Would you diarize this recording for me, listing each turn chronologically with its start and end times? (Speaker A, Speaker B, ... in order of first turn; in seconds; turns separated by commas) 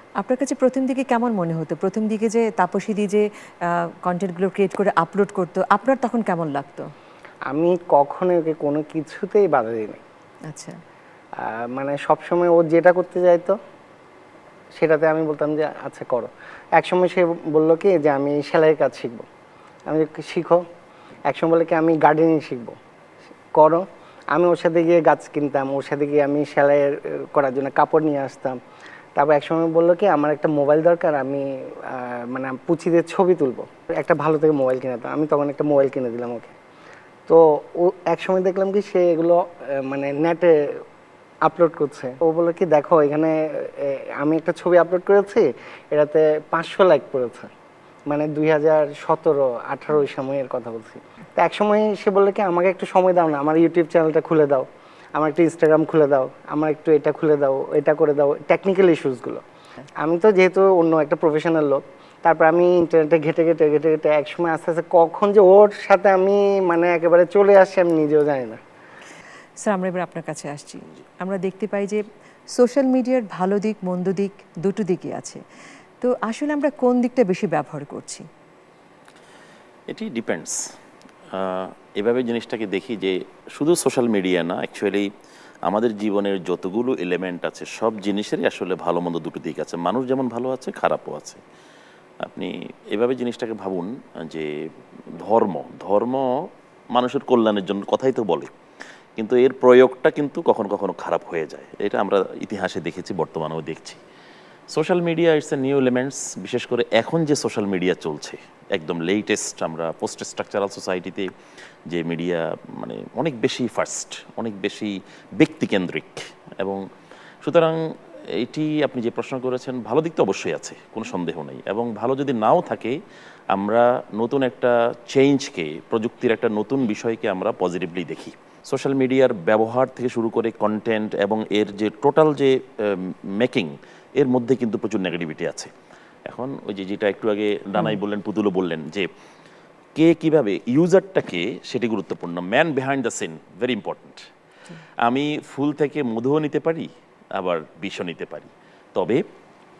Speaker A: 0.2-6.9, Speaker B: 7.5-10.0, Speaker A: 10.5-10.8, Speaker B: 11.4-13.5, Speaker B: 14.7-19.2, Speaker B: 19.9-20.6, Speaker B: 21.3-22.8, Speaker B: 23.5-28.6, Speaker B: 29.1-36.5, Speaker B: 37.3-40.8, Speaker B: 41.4-47.5, Speaker B: 48.1-59.4, Speaker B: 60.0-68.6, Speaker A: 69.6-72.0, Speaker A: 72.5-75.4, Speaker A: 76.0-78.2, Speaker C: 79.9-80.6, Speaker C: 81.3-85.1, Speaker C: 85.7-91.4, Speaker C: 92.2-94.5, Speaker C: 95.1-98.5, Speaker C: 99.2-104.0, Speaker C: 104.7-111.3, Speaker C: 111.9-116.8, Speaker C: 117.4-117.8, Speaker C: 118.3-123.0, Speaker C: 123.5-135.7, Speaker C: 136.3-139.1, Speaker C: 139.9-144.3, Speaker C: 145.0-149.2